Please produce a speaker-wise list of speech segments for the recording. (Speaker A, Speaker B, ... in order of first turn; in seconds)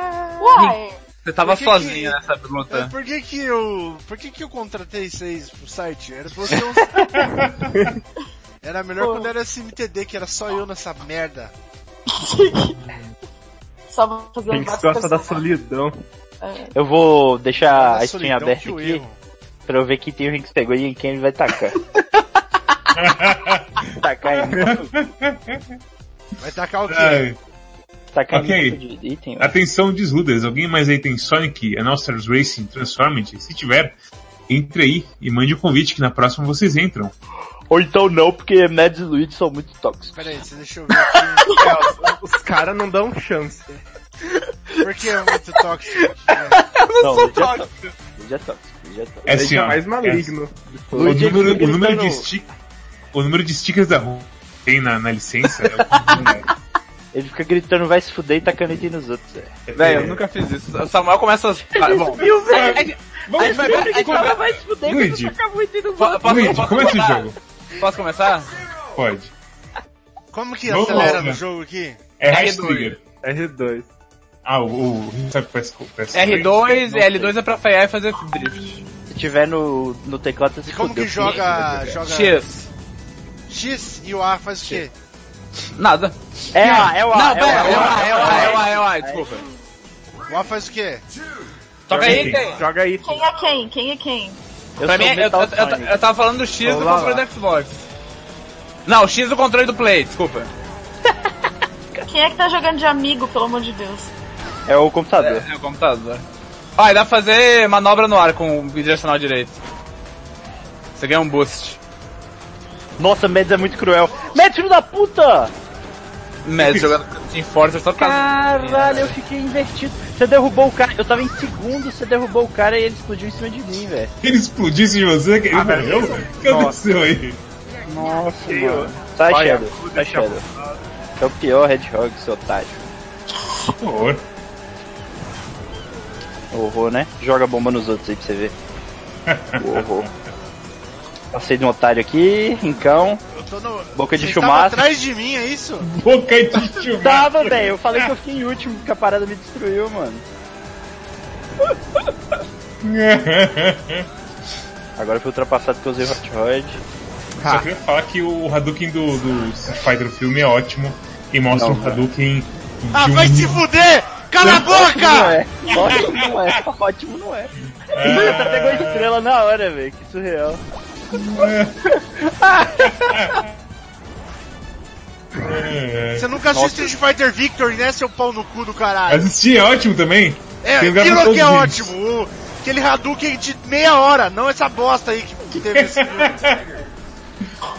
Speaker A: 0.4-1.0, 9.0-9.3, 12.1-12.8, 13.9-15.4, 16.4-16.7, 93.0-94.4, 102.1-104.1
Speaker B: 1.2-2.9, 44.3-45.4, 46.3-47.9, 55.6-56.3, 59.8-64.4, 66.0-68.5, 72.3-73.0, 76.1-78.8, 81.3-82.7, 85.8-89.4, 91.9-92.6, 94.8-97.9, 98.9-100.5, 105.2-106.2, 106.8-109.6, 111.0-111.8, 116.4-119.2
Speaker C: 1.4-2.2, 2.7-7.1, 8.6-11.5, 17.6-19.2, 26.4-27.2, 40.1-41.5, 44.8-46.6, 70.3-72.0, 80.7-82.4, 83.5-84.9, 90.3-91.0, 143.3-145.9, 162.9-165.4, 176.2-179.3, 180.6-186.5
Speaker D: 7.1-7.9, 12.8-13.1, 22.9-23.8, 24.5-25.8, 26.9-27.4, 28.3-28.8, 29.4-34.0, 34.5-37.1, 49.3-50.4, 51.0-52.5, 53.1-56.5, 59.7-60.2, 62.5-65.4, 66.2-67.3, 69.0-69.3, 70.7-71.4, 72.2-73.0, 74.5-77.3, 91.9-92.5, 116.6-117.0, 124.2-127.4, 133.8-134.2, 139.3-140.1, 145.8-148.1, 152.8-154.1, 157.4-163.6, 164.4-164.7, 165.7-166.6, 167.9-169.1, 171.1-171.8, 172.9-173.5, 175.4-176.3, 179.1-181.9, 185.6-186.8
Speaker E: 7.7-8.0, 14.5-16.0, 41.5-43.7, 49.3-51.7, 73.2-73.9, 92.0-93.2, 96.6-97.2, 125.5-126.8, 128.4-130.7, 157.4-157.7
Speaker F: 16.7-19.0, 19.7-21.8, 23.9-24.9, 28.1-29.6, 37.7-40.3, 47.0-49.3, 50.9-52.3, 57.1-59.5, 61.7-66.8, 76.9-77.3, 79.1-81.5, 86.5-89.3, 94.8-96.0, 104.7-105.5, 113.0-115.5, 118.0-124.1, 127.9-130.4, 131.2-132.9, 136.5-138.6, 139.6-140.1, 141.3-143.2, 143.9-144.8, 147.0-150.2, 155.0-156.8, 161.5-162.0, 164.6-170.6, 176.5-176.9